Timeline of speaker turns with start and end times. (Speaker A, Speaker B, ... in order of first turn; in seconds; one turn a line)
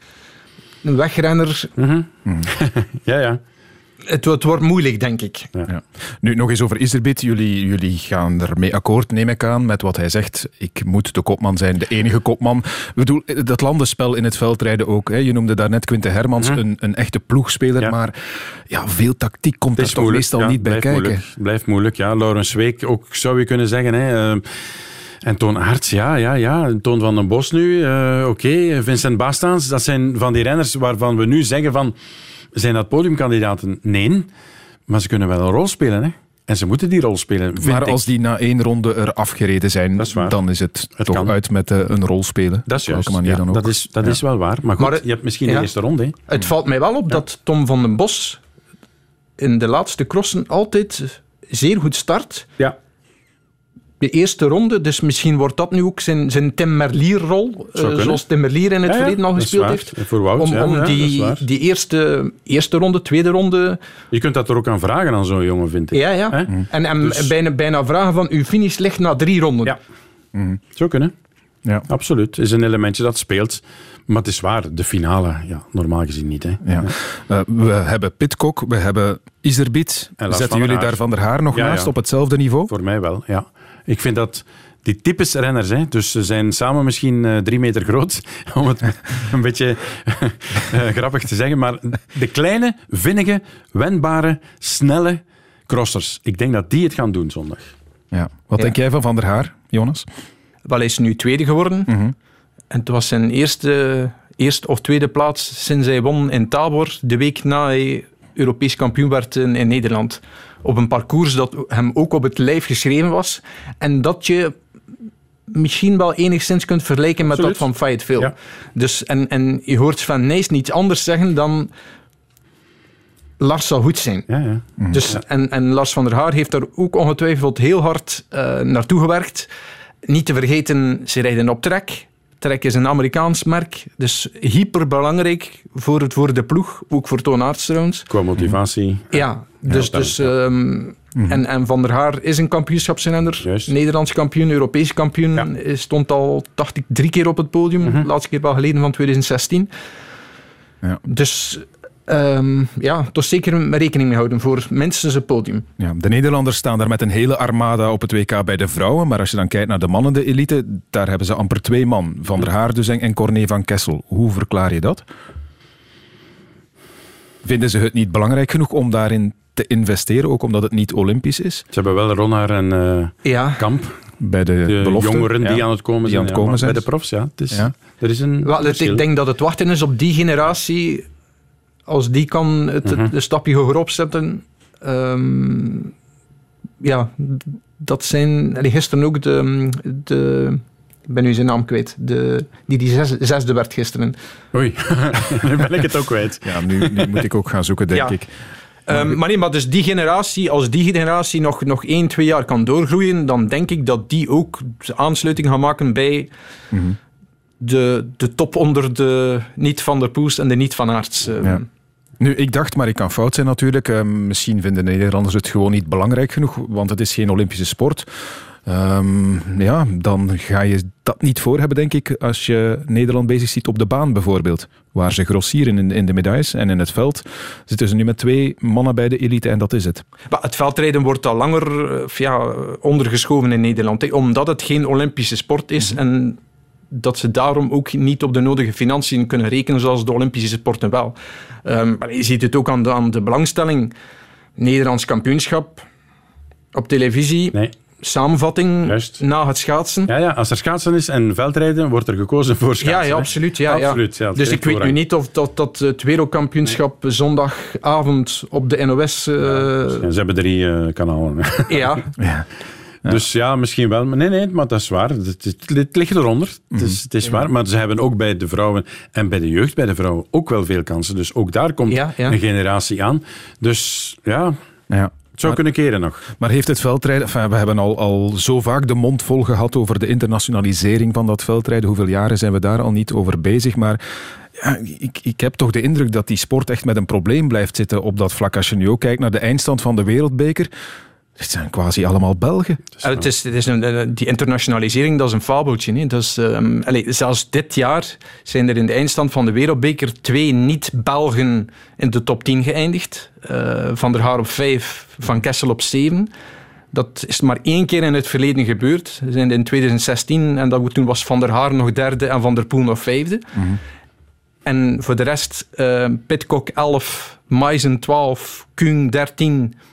Speaker A: 0.8-1.7
Speaker B: 1.8-3.4
Speaker A: 4.1-5.5
Speaker C: 5.7-21.2
Speaker B: 19.8-24.5
Speaker B: 25.2-31.9
Speaker B: 32.5-34.3
Speaker B: 34.9-38.0
Speaker C: 37.6-44.2
Speaker B: 40.0-40.4
Speaker B: 41.0-41.3
Speaker B: 42.7-46.2
Speaker A: 44.8-45.7
Speaker A: 46.3-48.4
Speaker A: 49.4-52.5
Speaker A: 54.0-63.8
Speaker B: 57.8-58.2
Speaker B: 58.9-61.5
Speaker B: 64.1-67.3
Speaker A: 65.9-69.8
Speaker C: 70.3-70.6
Speaker B: 70.8-71.1
Speaker B: 71.9-76.9
Speaker C: 76.6-82.7
Speaker B: 80.2-81.0
Speaker B: 81.5-81.9
Speaker B: 82.7-97.7
Speaker C: 98.1-100.1
Speaker A: 100.7-101.9
Speaker C: 101.9-102.1
Speaker A: 102.7-114.5
Speaker A: 115.5-121.7
Speaker B: 117.3-117.7
Speaker A: 123.4-124.3
Speaker B: 124.3-125.2
Speaker A: 124.9-129.5
Speaker A: 130.1-138.1
Speaker B: 138.1-140.3
Speaker A: 139.1-149.7
Speaker B: 143.4-143.7
Speaker A: 151.1-155.7
Speaker C: 155.8-165.1
Speaker C: 167.4-171.7
Speaker B: 171.7-173.9
Speaker A: 173.2-173.6
Speaker C: 174.2-176.8
Speaker B: 174.7-179.1
Speaker A: 178.4-181.1
Speaker A: 181.9-185.9
Speaker A: 186.8-194.2
Speaker B: 194.5-197.2
Speaker C: 196.4-198.3
Speaker A: 198.9-206.3
Speaker C: 206.7-207.0
Speaker A: 207.6-211.7
Speaker C: 212.2-230.0
Speaker A: 230.3-236.4
Speaker A: 236.9-243.9
Speaker A: 244.6-245.8
Speaker A: 246.7-250.1
Speaker B: 248.9-249.2
Speaker B: 250.1-255.0
Speaker A: 252.8-260.0
Speaker B: 259.4-261.9
Speaker A: 261.7-262.1
Speaker C: 262.2-262.5
Speaker B: 263.1-274.6
Speaker C: 266.7-267.0
Speaker A: 271.9-272.4
Speaker C: 274.9-275.6
Speaker B: 275.4-276.2
Speaker C: 276.3-284.0
Speaker C: 284.6-290.7
Speaker C: 291.4-292.8
Speaker A: 293.0-306.3
Speaker A: 306.9-313.5
Speaker C: 313.6-313.8
Speaker A: 314.6-319.8